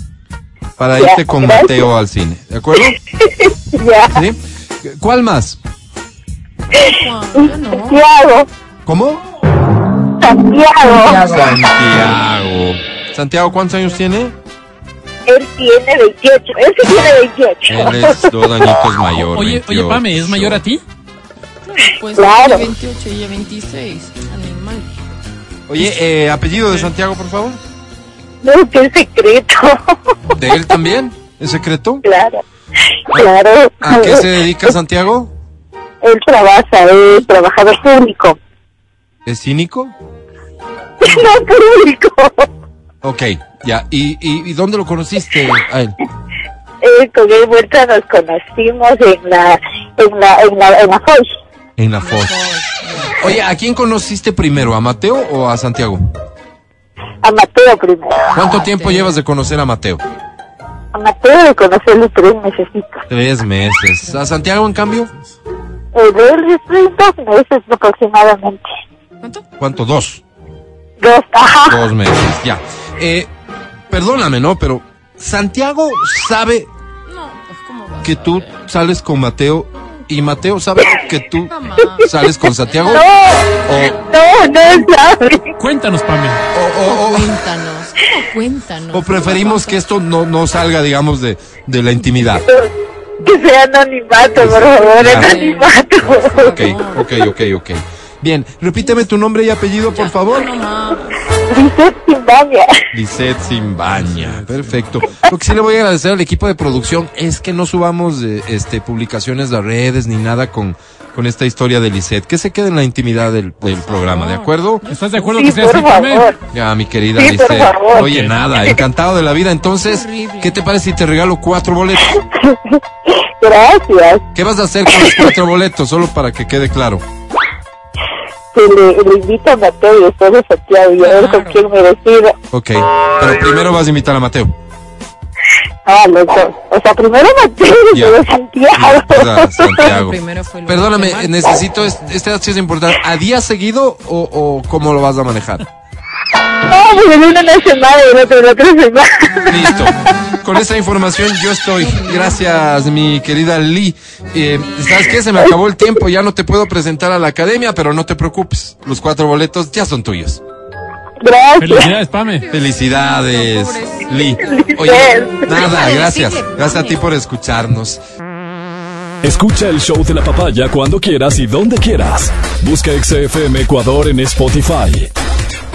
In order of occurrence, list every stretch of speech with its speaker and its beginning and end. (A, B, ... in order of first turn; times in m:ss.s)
0:00.8-0:03.0 A
0:01.0-0:01.8 B
0:03.2-0:04.2 B
0:04.1-0:05.6 A
0:06.8-0:08.0 C
0:07.4-0:08.5 B
0:08.8-0:09.2 A
0:10.2-0:11.4 B
0:10.8-0:11.5 C
0:11.2-0:14.3 A
0:15.2-0:18.2 B
0:17.7-0:20.6 A
0:19.3-0:20.8 D
0:21.6-0:24.9 C
0:22.2-0:22.7 B
0:25.7-0:27.6 A
0:28.4-0:29.8 B
0:30.4-0:32.0 A
0:32.0-0:32.4 B
0:33.1-0:34.3 B
0:33.8-0:35.3 A
0:36.0-0:38.4 B
0:39.2-0:39.9 A
0:41.0-0:42.5 B
0:43.0-0:46.0 A
0:46.8-0:51.3 B
0:51.8-0:52.3 A
0:52.0-0:53.3 C
0:53.2-0:56.1 A
0:57.2-0:58.2 B
0:58.3-0:59.2 C
0:58.4-1:00.0 A
1:00.9-1:03.0 B
1:03.1-1:05.1 A
1:05.9-1:08.6 B
1:09.6-1:10.2 A
1:11.0-1:11.8 B
1:11.7-1:13.3 A
1:13.9-1:16.7 A
1:17.1-1:18.6 C
1:18.0-1:23.1 A
1:21.5-1:23.0 C
1:22.9-1:25.5 B
1:23.6-1:24.0 A
1:25.6-1:26.4 D
1:26.5-1:27.3 A
1:26.8-1:29.8 C
1:28.9-1:32.4 A
1:32.4-1:32.7 B
1:33.2-1:36.5 B
1:34.4-1:35.3 A
1:34.8-1:37.1 C
1:36.4-1:40.5 A
1:39.9-1:41.2 C
1:41.5-1:42.7 B
1:42.9-1:54.8 A
1:43.9-1:45.1 D
1:53.8-1:55.5 C
1:54.8-1:56.3 D
1:55.3-1:56.4 B
1:56.5-2:02.2 A
1:57.1-1:58.1 B
1:57.9-1:58.3 D
1:59.8-2:00.6 C
2:02.2-2:04.2 B
2:04.3-2:07.0 A
2:04.9-2:05.3 B
2:08.5-2:12.3 B
2:11.0-2:11.6 C
2:12.5-2:14.5 A
2:15.8-2:19.9 B
2:17.9-2:18.2 A
2:18.7-2:25.6 A
2:19.7-2:22.2 C
2:26.7-2:29.8 B
2:29.5-2:40.4 A
2:31.8-2:33.0 C
2:41.2-2:42.0 B
2:41.6-2:42.4 D
2:42.3-2:44.4 C
2:42.5-2:48.0 A
2:44.4-2:45.7 B
2:45.5-2:47.0 C
2:49.2-2:55.1 E